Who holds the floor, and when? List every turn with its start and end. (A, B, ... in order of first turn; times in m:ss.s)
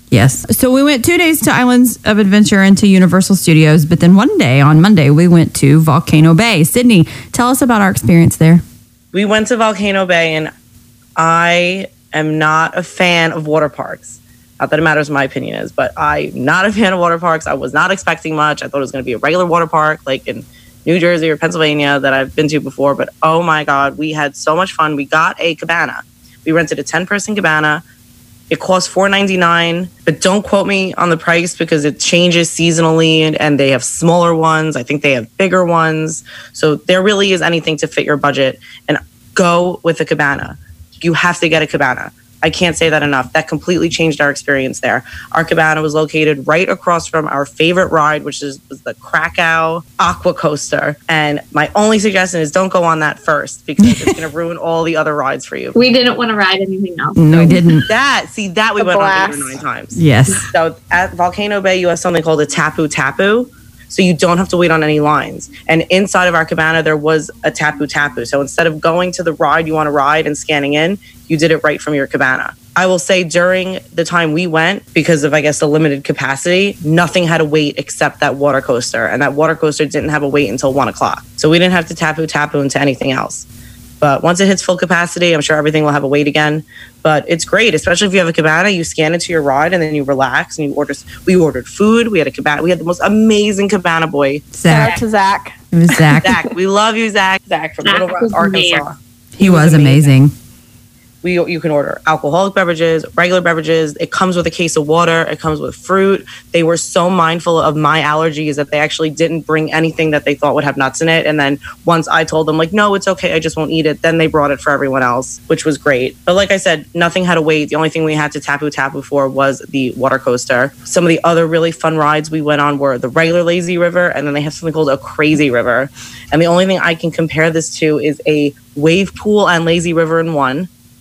0:00.1-0:08.6 A
0:09.1-0:10.5 B
0:11.2-0:27.8 B
0:28.5-0:55.8 B
0:53.8-0:54.2 A
0:55.7-0:57.8 C
0:57.2-0:57.9 A
0:57.9-1:00.0 B
0:58.8-0:59.5 D
0:59.9-1:00.4 A
1:00.5-1:23.4 B
1:24.0-1:34.5 B
1:34.5-1:35.0 A
1:34.6-1:36.1 D
1:35.7-1:36.4 A
1:36.2-1:40.1 B
1:37.8-1:38.8 C
1:39.3-1:40.3 A
1:41.2-2:10.7 B